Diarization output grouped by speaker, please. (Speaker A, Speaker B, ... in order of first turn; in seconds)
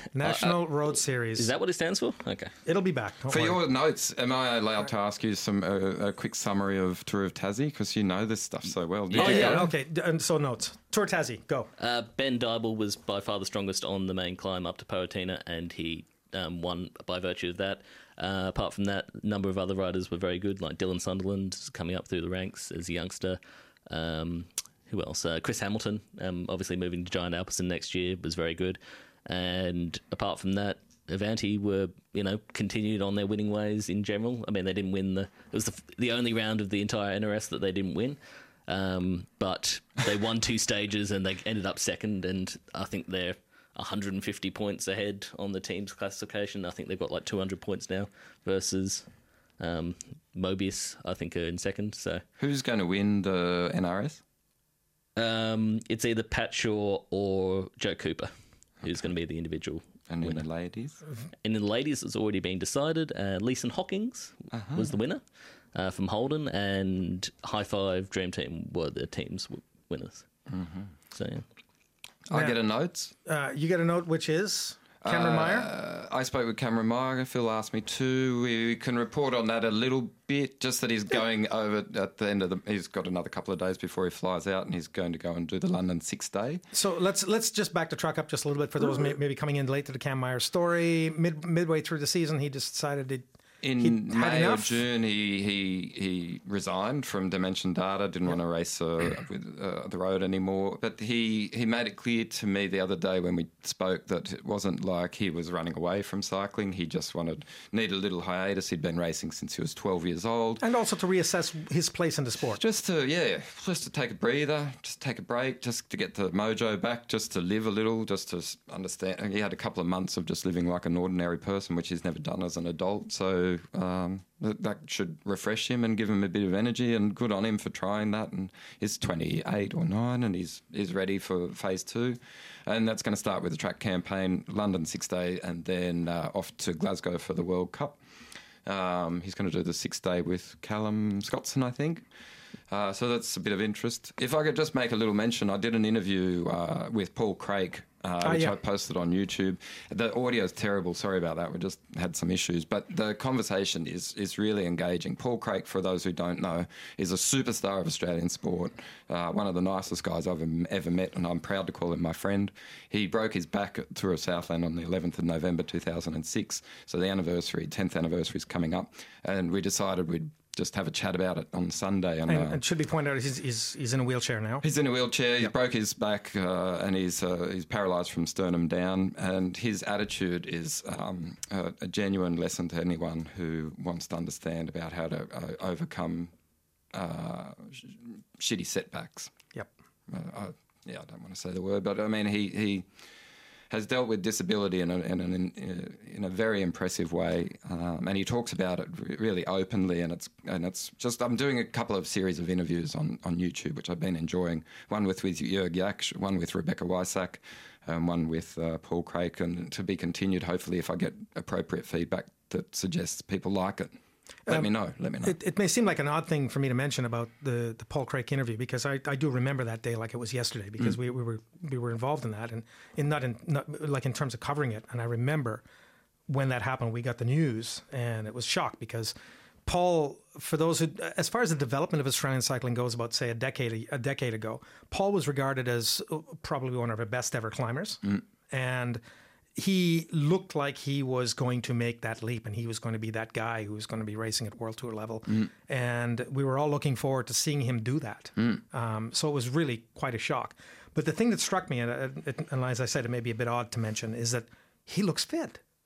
Speaker A: 0.1-1.5, 2.6-3.6, 9.2-11.7, 73.2-75.7, 86.7-93.2, 93.8-94.8, 110.6-112.6, 148.2-148.6, 172.3-174.6, 215.2-225.6, 226.3-229.1, 229.7-239.0, 239.6-255.6
Speaker B: 0.2-0.6, 1.4-2.5, 9.1-9.7, 11.8-52.2, 55.2-60.4, 61.4-65.2, 65.7-70.3, 71.1-71.5
Speaker C: 3.3-9.7, 52.4-54.2, 58.8-59.1, 60.1-61.0, 64.5-64.9, 70.5-70.9, 72.3-73.1, 75.0-86.6, 93.6-110.6, 112.5-138.0, 138.6-142.1, 142.7-172.6, 174.6-186.3, 186.9-189.3, 190.1-192.9, 193.7-213.9, 214.5-215.4